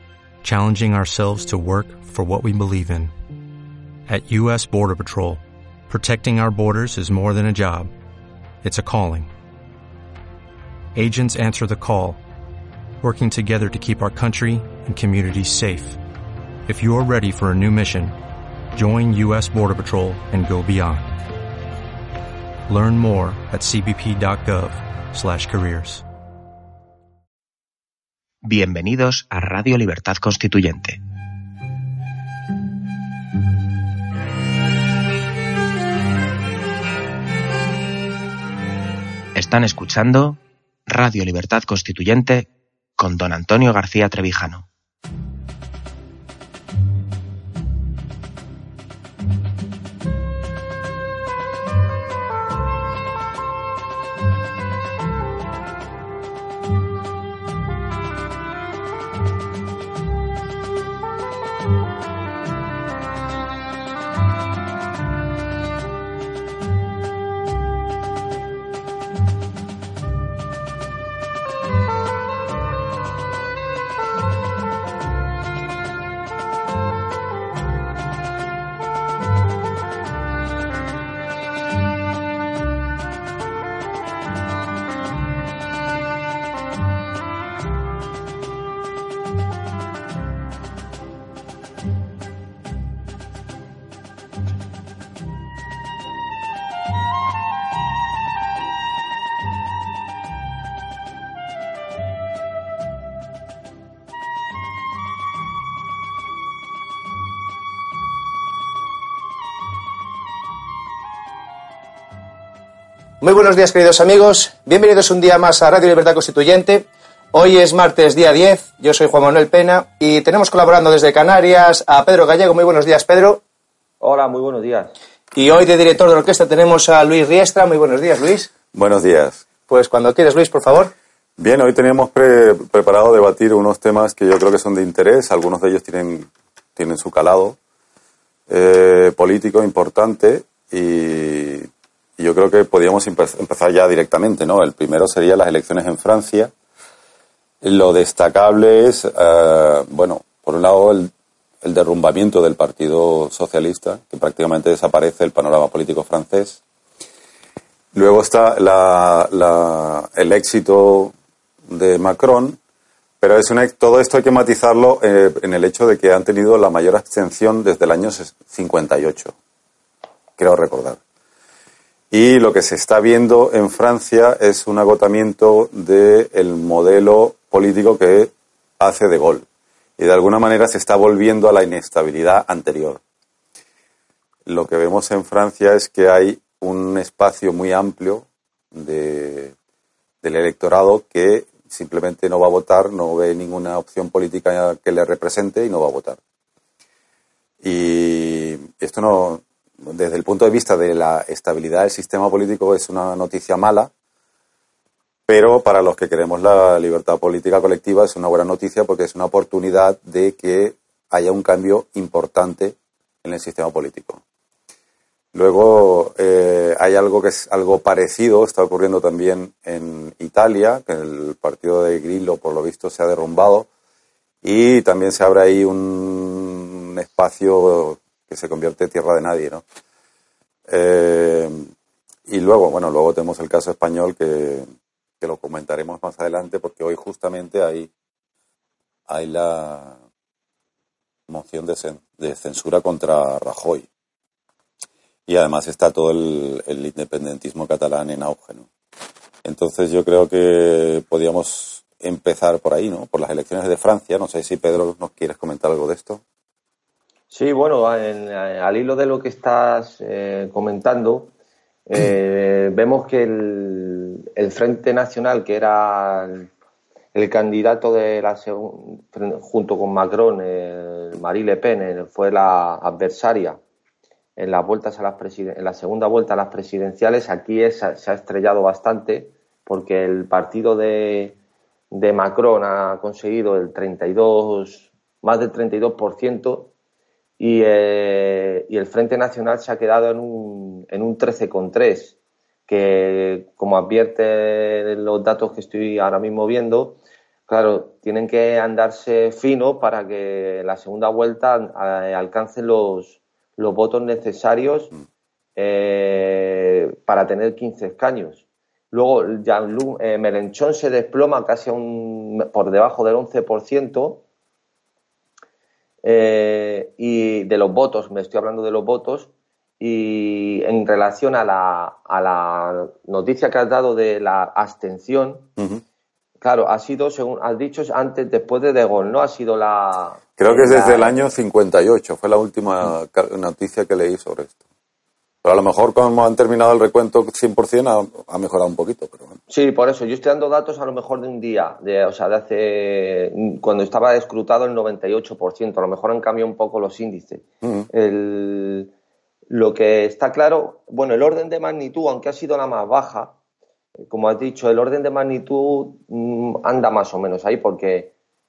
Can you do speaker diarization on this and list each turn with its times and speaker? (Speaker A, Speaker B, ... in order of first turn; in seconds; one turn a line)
Speaker A: 0.4-3.1
Speaker A: 4.1-7.9
Speaker A: 8.6-9.3
Speaker A: 10.9-12.2
Speaker A: 13.0-16.0
Speaker A: 16.6-18.1
Speaker A: 18.7-21.2
Speaker A: 22.7-26.0
Speaker B: 28.4-31.0
Speaker B: 39.4-44.6
Speaker C: 113.2-123.4
Speaker D: 124.0-124.9
Speaker C: 125.3-128.5
Speaker E: 128.7-129.4
Speaker C: 129.7-130.9
Speaker E: 131.4-137.6
Speaker E: 138.5-146.5
Speaker E: 147.6-151.1
Speaker E: 151.6-156.6
Speaker E: 157.9-161.1
Speaker E: 161.7-162.6
Speaker E: 163.2-169.3
Speaker E: 170.4-171.0
Speaker E: 172.1-179.4
Speaker E: 180.0-183.0
Speaker E: 184.4-189.5
Speaker E: 190.2-196.2
Speaker E: 197.6-203.9
Speaker E: 205.3-214.2
Speaker E: 215.3-223.7
Speaker E: 224.4-229.6
Speaker E: 230.7-231.7
Speaker E: 232.3-234.7
Speaker E: 235.2-237.9
Speaker E: 239.1-240.0
Speaker E: 241.3-243.9
Speaker E: 245.3-248.7
Speaker E: 249.4-256.2
Speaker D: 257.3-261.3
Speaker D: 261.9-266.5
Speaker D: 267.1-273.6
Speaker D: 274.4-281.4
Speaker D: 281.9-286.7
Speaker D: 287.4-292.1
Speaker D: 292.7-304.9
Speaker D: 305.6-314.2
Speaker D: 316.0-325.5
Speaker D: 326.4-331.2
Speaker E: 330.4-334.6
Speaker E: 335.4-339.4
Speaker D: 339.5-348.9
Speaker E: 347.6-347.9
Speaker D: 349.5-353.3
Speaker D: 354.1-358.1